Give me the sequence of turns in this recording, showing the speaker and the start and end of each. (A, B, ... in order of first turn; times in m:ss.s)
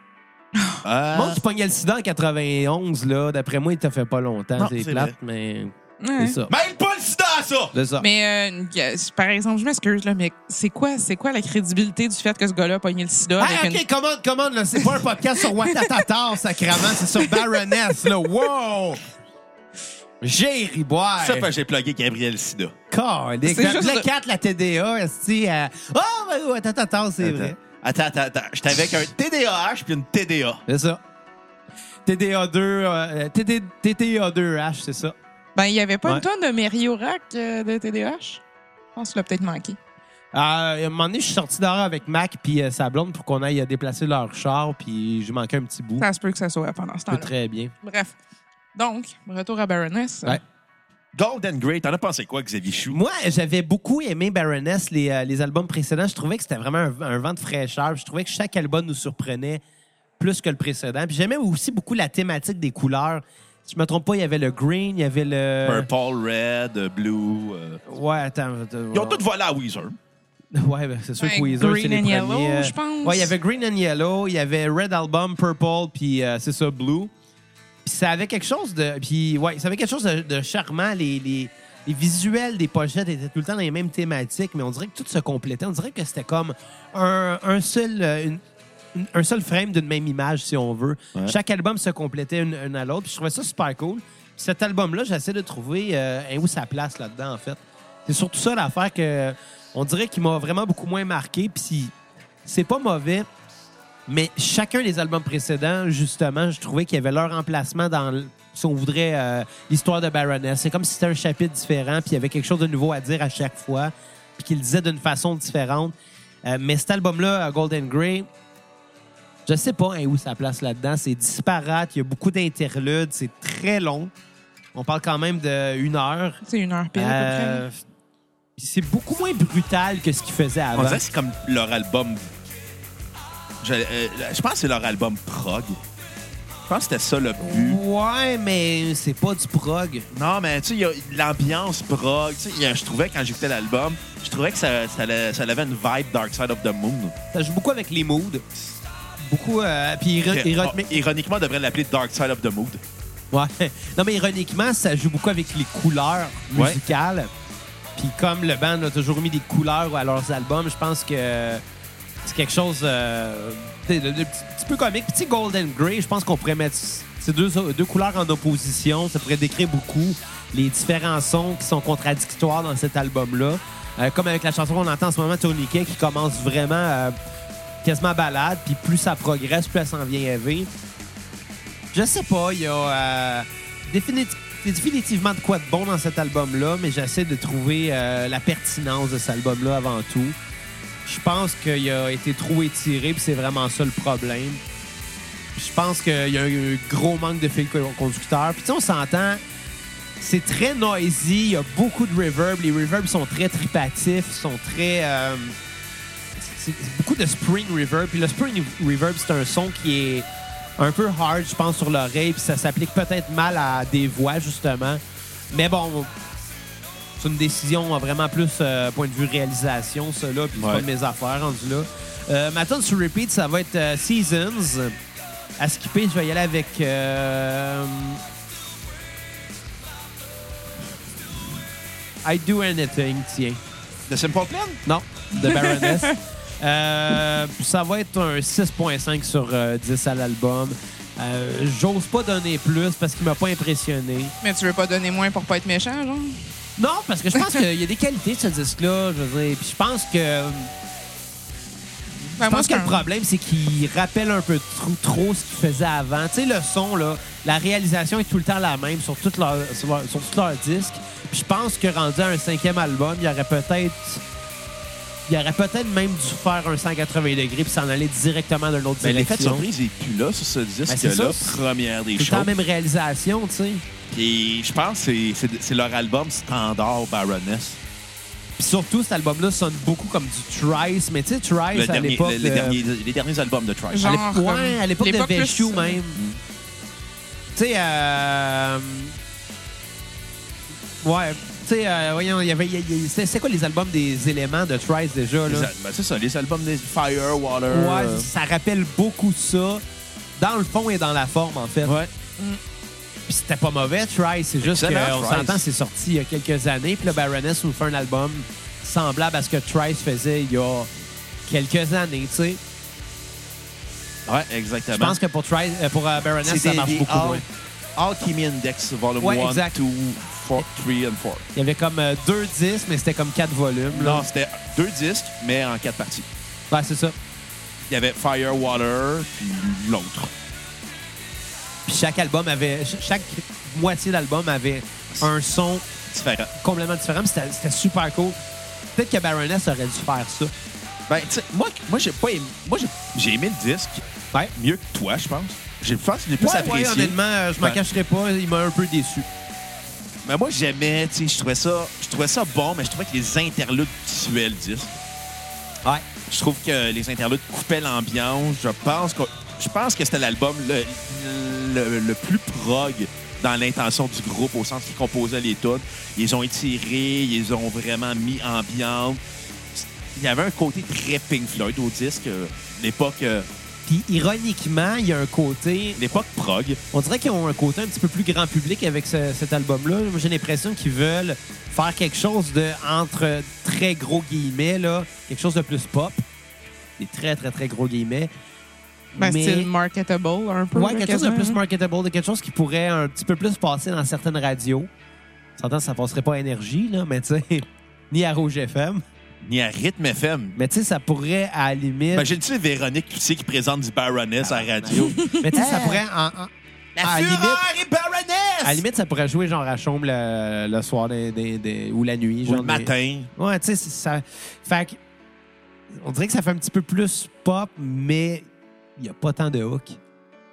0:00.5-0:00.8 A
0:00.8-0:01.4 B
0:01.1-0:06.5 C
0:04.6-0:05.1 B
0:06.0-0:06.4 A
0:06.5-0:07.8 B
0:07.7-0:08.0 C
0:08.0-0:13.8 A
0:13.4-0:19.0 C
0:15.6-0:15.9 A
0:16.9-0:18.0 A
0:20.2-0:21.5 C
0:21.2-0:22.7 B
0:22.9-0:27.6 C
0:23.4-0:24.0 A
0:27.2-0:30.6 B
0:30.7-0:31.0 C
0:32.0-0:35.1 C
0:35.6-0:38.4 A
0:39.0-0:39.8 A
0:40.3-0:46.0 C
0:46.0-0:47.3 A
0:47.1-0:47.7 C
0:47.8-0:48.1 A
0:48.8-0:50.4 A
0:51.1-0:53.0 B
0:52.9-0:59.6 C
1:00.2-1:05.9 C
1:05.6-1:07.8 B
1:07.9-1:09.2 C
1:08.9-1:10.0 B
1:10.5-1:17.1 C
1:11.2-1:13.3 A
1:17.8-1:28.4 C
1:28.9-1:41.9 C
1:42.4-1:43.2 C
1:44.1-1:56.0 C
1:56.5-1:58.3 C
1:59.5-2:04.1 C
2:04.8-2:06.4 C
2:06.4-2:07.6 A
2:07.0-2:07.8 C
2:08.6-2:11.0 C
2:10.8-2:12.3 B
2:13.6-2:15.8 B
2:16.7-2:17.8 B
2:17.4-2:20.1 C
2:20.1-2:27.1 B
2:27.3-2:28.4 C
2:29.2-2:31.0 C
2:30.3-2:32.8 B
2:33.3-2:37.3 C
2:36.5-2:36.8 B
2:38.0-2:41.6 C
2:42.2-2:57.2 C
2:57.8-3:00.7 C
3:01.9-3:10.4 C
3:11.0-3:14.6 C
3:15.6-3:19.4 C
3:20.2-3:25.6 C
3:26.4-3:30.2 C
3:30.8-3:36.1 C
3:37.2-3:45.0 C
3:40.6-3:40.8 B
3:45.6-3:48.2 C
3:52.2-3:53.6 C
3:54.1-3:54.8 B
3:54.9-4:04.3 C
3:55.4-3:56.1 A
4:04.4-4:06.4 A
4:06.8-4:10.7 C
4:12.4-4:24.2 C
4:12.4-4:13.0 A
4:25.3-4:29.6 C
4:29.0-4:32.5 B
4:30.9-4:31.6 C
4:32.2-4:33.8 C
4:34.1-4:37.8 B
4:38.6-4:42.8 C
4:41.7-4:44.1 B
4:43.9-4:46.0 A
4:44.0-4:46.2 C
4:46.1-4:46.4 B
4:47.6-4:49.1 C
4:51.0-4:55.7 C
4:55.4-4:58.3 B
4:57.7-4:59.8 C
5:00.4-5:02.0 C
5:01.8-5:02.1 B
5:03.3-5:10.9 C
5:04.6-5:05.6 B
5:11.5-5:12.6 C
5:14.3-5:15.2 B
5:14.9-5:17.4 C
5:16.4-5:17.4 B
5:18.0-5:21.4 B
5:19.2-5:19.7 C
5:21.6-5:24.3 C
5:23.9-5:26.3 B
5:26.7-5:27.1 C
5:27.9-5:30.3 B
5:31.9-5:35.9 C
5:36.1-5:36.5 B
5:36.6-5:38.4 C
5:39.0-5:40.5 C
5:41.1-5:44.0 B
5:44.6-5:47.8 B
5:46.4-5:49.3 C
5:50.2-5:54.9 B
5:56.3-6:09.2 B
6:09.7-6:13.5 B
6:13.9-6:16.2 C
6:16.0-6:16.8 B
6:16.9-6:26.2 C
6:27.0-6:28.3 C
6:29.1-6:29.7 C
6:29.2-6:31.6 A
6:30.7-6:34.9 C
6:35.6-6:39.0 C
6:39.4-6:40.6 B
6:40.6-6:42.3 C
6:42.1-6:46.0 B
6:44.4-6:46.5 C
6:45.0-6:45.9 A
6:47.0-6:48.8 B
6:47.0-6:47.6 C
6:48.6-6:55.0 C
6:52.4-6:53.3 B
6:55.9-7:00.0 C